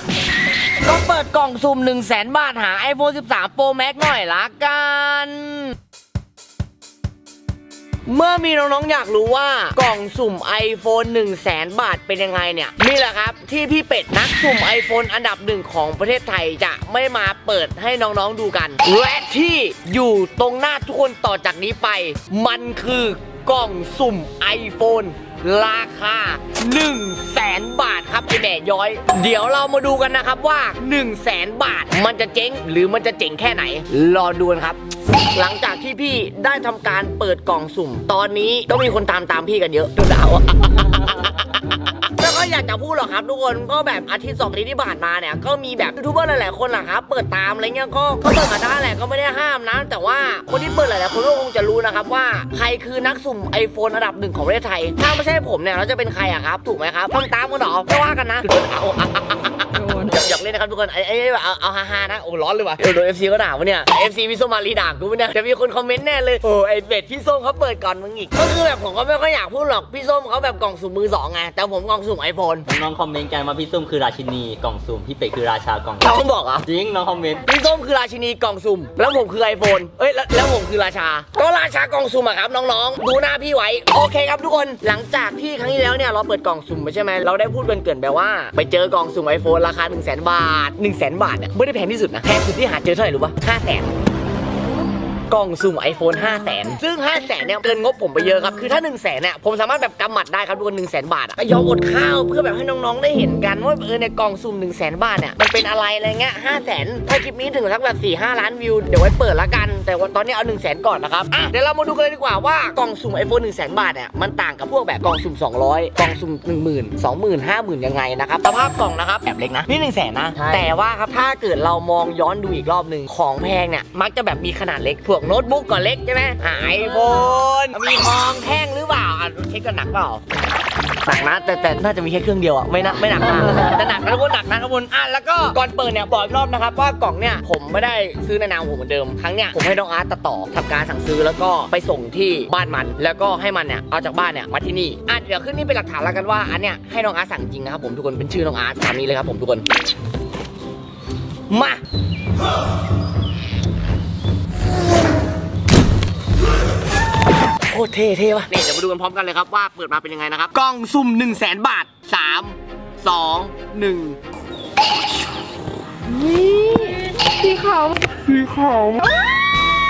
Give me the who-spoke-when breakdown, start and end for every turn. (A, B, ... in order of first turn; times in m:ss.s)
0:00.8-0:05.8 A
0:08.1-0:34.8 A
0:35.3-1:12.7 A
0:59.8-1:00.1 B
1:12.7-1:16.1 C
1:16.0-1:16.7 A
1:16.6-1:17.4 C
1:17.4-1:33.9 A
1:35.3-2:10.2 A
2:11.0-2:29.6 A
2:31.5-2:31.8 A
2:37.6-2:44.2 A
2:46.1-2:49.1 B